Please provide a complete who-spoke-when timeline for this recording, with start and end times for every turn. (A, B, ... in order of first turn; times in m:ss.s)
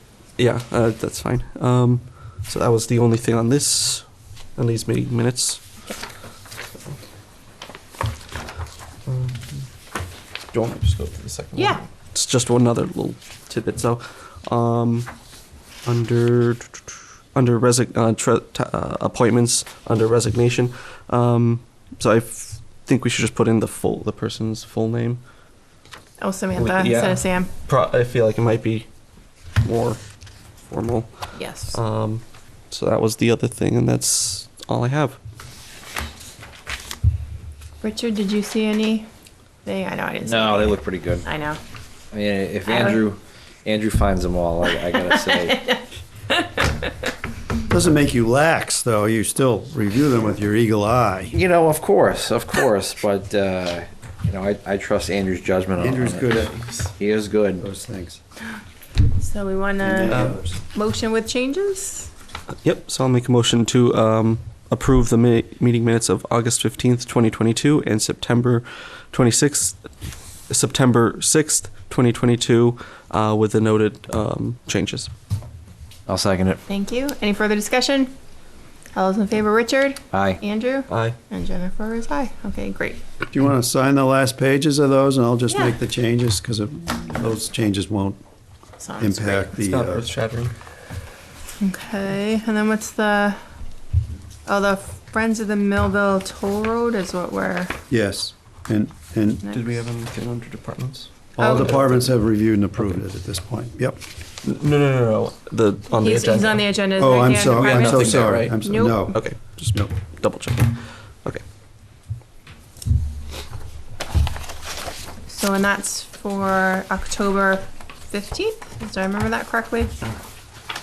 0:00.4-0:05.6 A
0:09.0-0:09.7 A
0:10.5-0:15.1 A
0:11.5-0:11.8 B
0:15.8-0:25.2 A
0:26.2-0:27.5 B
0:26.5-0:28.9 A
0:29.6-0:30.0 A
0:30.7-0:31.1 A
0:31.3-0:31.8 B
0:31.7-0:35.2 A
0:37.8-0:39.0 B
0:39.6-0:41.6 B
0:40.2-0:41.2 C
0:42.1-0:45.7 C
0:42.6-0:43.0 B
0:44.7-0:46.9 B
0:47.7-0:51.3 D
0:51.3-0:57.6 C
0:55.8-0:56.6 D
0:56.5-0:56.8 A
0:57.6-0:58.2 D
0:59.1-1:02.1 B
0:59.8-1:00.6 D
1:00.1-1:00.4 A
1:02.6-1:09.8 A
1:10.5-1:15.1 A
1:16.1-1:16.6 C
1:16.7-1:18.1 B
1:18.9-1:23.0 B
1:20.1-1:20.4 C
1:20.9-1:21.2 A
1:23.3-1:28.2 D
1:25.5-1:25.7 B
1:28.8-1:29.5 B
1:29.0-1:30.0 D
1:29.5-1:30.5 A
1:31.6-1:33.4 B
1:34.4-1:37.7 B
1:37.9-1:39.4 D
1:39.4-1:39.7 B
1:39.4-1:41.9 A
1:41.4-1:44.0 D
1:41.4-1:41.9 B
1:44.4-1:46.7 A
1:46.0-1:49.2 B
1:47.0-1:49.2 D
1:47.5-1:51.4 A
1:55.3-2:00.0 B